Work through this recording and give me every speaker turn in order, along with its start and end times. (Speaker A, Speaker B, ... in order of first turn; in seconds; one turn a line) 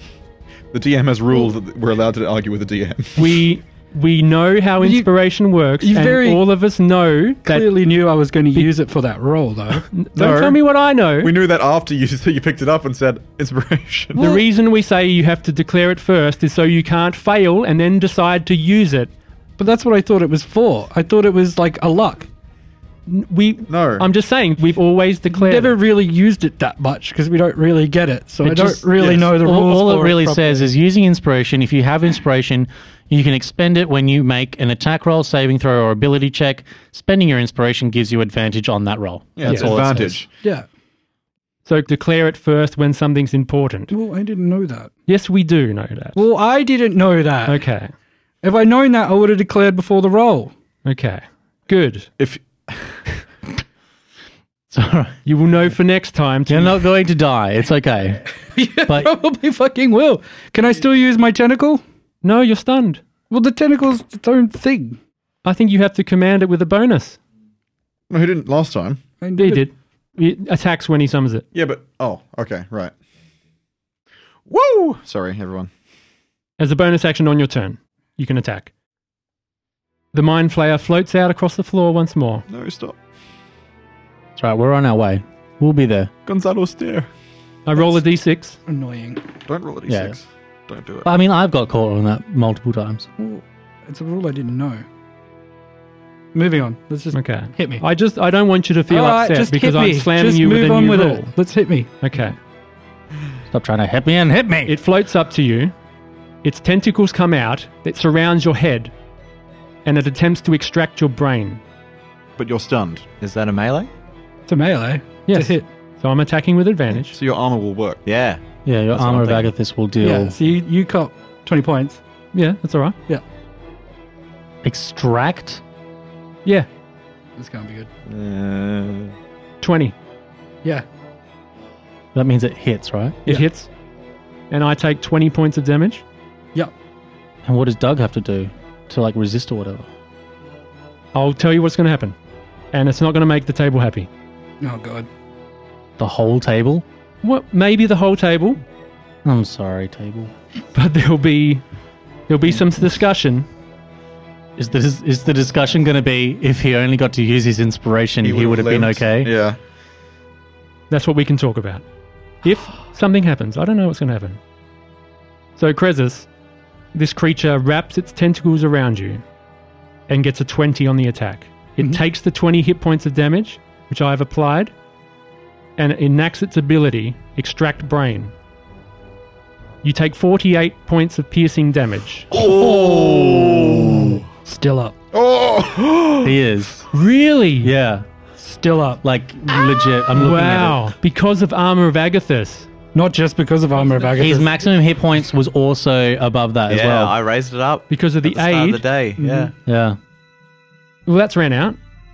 Speaker A: 0.7-3.4
Speaker B: 3.2-7.7
Speaker C: 4.8-5.1
Speaker C: 5.8-6.4
Speaker C: 7.4-9.9
Speaker B: 9.8-11.3
Speaker A: 10.1-10.6
Speaker A: 11.2-14.3
Speaker C: 14.2-14.4
Speaker B: 14.2-19.1
Speaker C: 19.6-22.3
Speaker B: 23.1-25.7
Speaker A: 23.7-24.1
Speaker C: 25.3-30.7
Speaker D: 28.4-40.3
Speaker A: 29.0-29.4
Speaker A: 39.4-40.3
Speaker B: 39.5-39.7
Speaker B: 41.6-43.9
Speaker C: 43.9-44.9
Speaker B: 45.1-46.2
Speaker C: 46.1-47.6
Speaker B: 47.5-47.9
Speaker C: 48.4-50.5
Speaker B: 50.8-52.1
Speaker A: 52.2-53.0
Speaker D: 54.7-55.1
Speaker B: 55.2-56.8
Speaker D: 56.5-58.2
Speaker C: 58.5-61.8
Speaker D: 58.9-59.1
Speaker B: 62.2-63.0
Speaker C: 63.3-65.0
Speaker B: 65.4-67.2
Speaker A: 68.1-69.0
Speaker C: 69.2-69.6
Speaker B: 69.4-71.4
Speaker A: 71.5-72.9
Speaker A: 74.5-75.7
Speaker B: 76.6-78.7
Speaker B: 80.1-82.4
Speaker A: 82.5-83.0
Speaker D: 84.3-86.1
Speaker A: 86.2-87.1
Speaker B: 87.7-88.6
Speaker C: 88.7-89.2
Speaker A: 89.5-91.1
Speaker D: 89.9-90.2
Speaker D: 91.0-93.1
Speaker C: 93.2-94.8
Speaker C: 96.3-97.8
Speaker B: 97.1-101.3
Speaker C: 98.9-101.9
Speaker B: 102.0-102.3
Speaker D: 103.5-104.7
Speaker B: 104.7-105.7
Speaker B: 106.4-108.9
Speaker B: 109.8-111.6
Speaker A: 112.4-113.0
Speaker E: 113.2-113.9
Speaker C: 114.5-115.6
Speaker B: 115.3-117.2
Speaker A: 116.9-118.0
Speaker E: 118.0-119.5
Speaker D: 118.7-120.3
Speaker C: 120.0-122.0
Speaker B: 122.3-123.0
Speaker D: 124.6-125.6
Speaker C: 127.3-127.9
Speaker E: 128.1-129.1
Speaker B: 129.6-129.9
Speaker D: 132.1-133.2
Speaker B: 133.2-133.7
Speaker B: 134.5-136.0
Speaker D: 137.4-139.9
Speaker B: 141.1-142.2
Speaker B: 142.7-144.1
Speaker C: 144.6-145.1
Speaker D: 146.0-146.8
Speaker B: 147.2-148.6
Speaker D: 149.2-150.3
Speaker B: 150.7-151.6
Speaker B: 152.3-153.5
Speaker D: 154.6-159.3
Speaker A: 158.2-159.6
Speaker B: 160.9-161.8
Speaker B: 162.4-164.4
Speaker B: 165.6-166.3
Speaker B: 166.9-169.2
Speaker B: 170.1-174.7
Speaker B: 175.8-178.3
Speaker B: 179.8-182.3
Speaker A: 182.3-184.2
Speaker C: 182.3-184.9
Speaker A: 185.1-186.4
Speaker D: 186.2-186.8
Speaker B: 186.9-187.7
Speaker D: 187.6-188.0
Speaker C: 188.4-189.0
Speaker D: 189.0-190.8
Speaker B: 190.1-192.7
Speaker C: 192.9-194.5
Speaker D: 194.1-197.1
Speaker E: 196.7-199.5
Speaker B: 197.9-198.8
Speaker C: 199.2-199.5
Speaker D: 199.7-200.0
Speaker B: 201.1-201.8